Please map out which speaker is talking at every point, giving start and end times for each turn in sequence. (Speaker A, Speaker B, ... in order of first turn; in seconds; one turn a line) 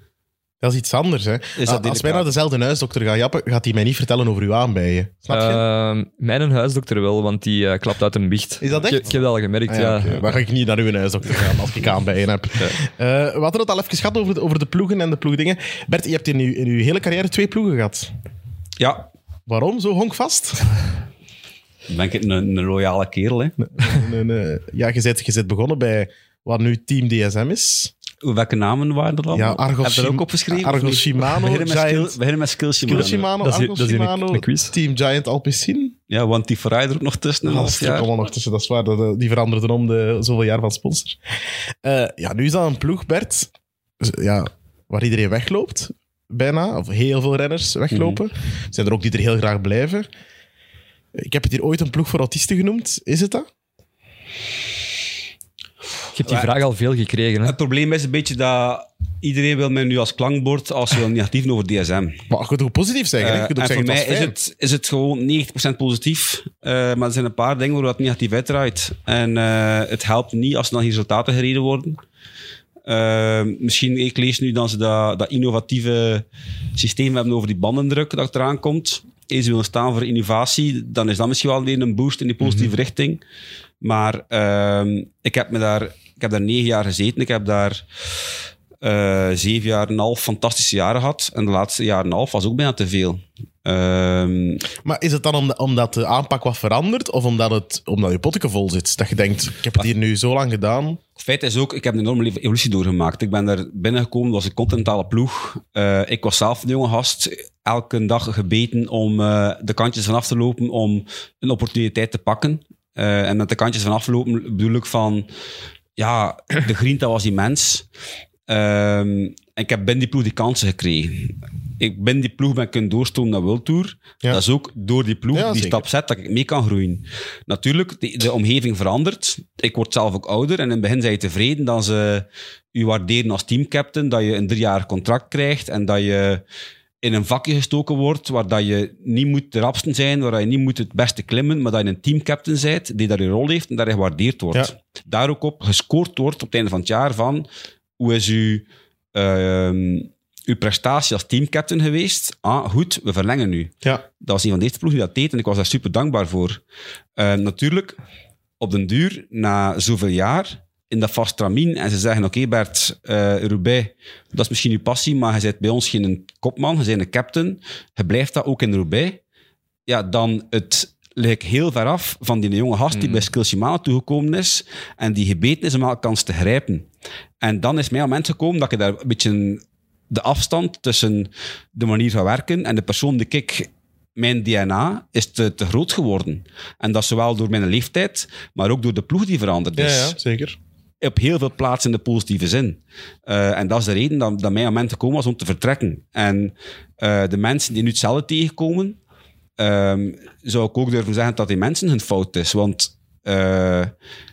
Speaker A: 0.6-5.6
Speaker B: 1.6-2.3
Speaker C: 5.3-10.3
Speaker A: 8.6-18.1
Speaker B: 18.8-19.1
Speaker A: 19.5-20.7
Speaker B: 21.9-23.6
Speaker A: 23.6-27.9
Speaker B: 28.2-33.3
Speaker A: 29.3-32.2
Speaker A: 32.8-35.9
Speaker C: 33.4-34.7
Speaker B: 36.1-38.1
Speaker A: 37.4-41.2
Speaker A: 41.8-50.1
Speaker B: 47.9-48.2
Speaker A: 51.1-53.5
Speaker C: 56.1-57.5
Speaker B: 56.2-56.5
Speaker B: 57.4-62.2
Speaker A: 62.3-64.3
Speaker B: 63.2-72.0
Speaker B: 72.8-83.2
Speaker C: 82.4-82.7
Speaker B: 83.8-87.8
Speaker B: 88.8-94.6
Speaker A: 94.8-101.0
Speaker B: 101.2-115.3
Speaker B: 116.0-117.8
Speaker B: 118.5-136.4
Speaker A: 125.3-125.8
Speaker B: 137.0-147.4
Speaker B: 148.0-156.6
Speaker B: 157.2-158.0
Speaker B: 158.6-169.2
Speaker B: 169.9-176.9
Speaker C: 172.9-173.2
Speaker B: 177.4-190.2
Speaker A: 189.8-190.6
Speaker B: 191.0-199.0
Speaker B: 199.6-203.9